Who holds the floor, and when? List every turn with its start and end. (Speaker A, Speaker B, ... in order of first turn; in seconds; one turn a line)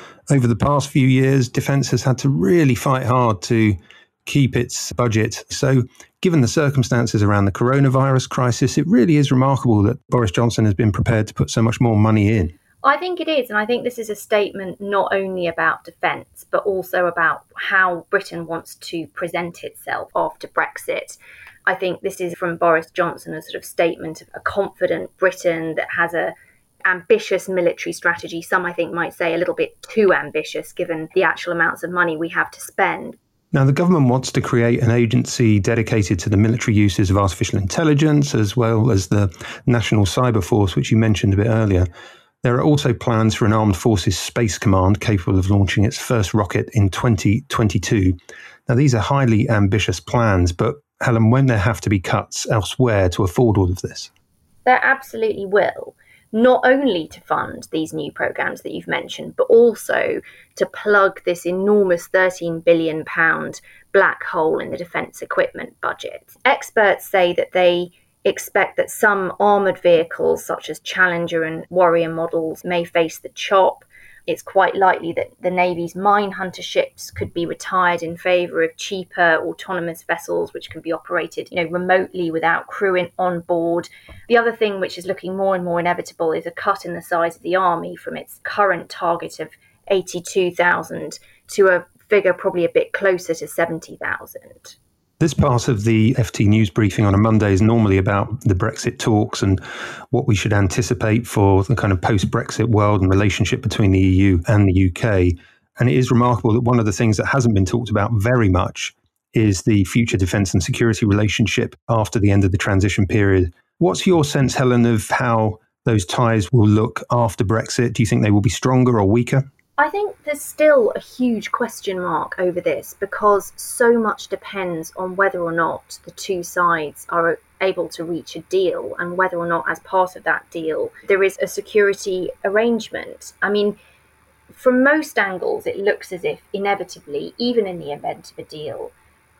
Speaker A: 0.3-12.5
Speaker B: 12.8-26.3
Speaker B: 26.8-33.1
Speaker A: 33.5-41.9
Speaker A: 42.4-54.1
Speaker B: 54.6-94.7
Speaker A: 95.2-119.5
Speaker B: 119.8-133.8
Speaker B: 134.5-138.9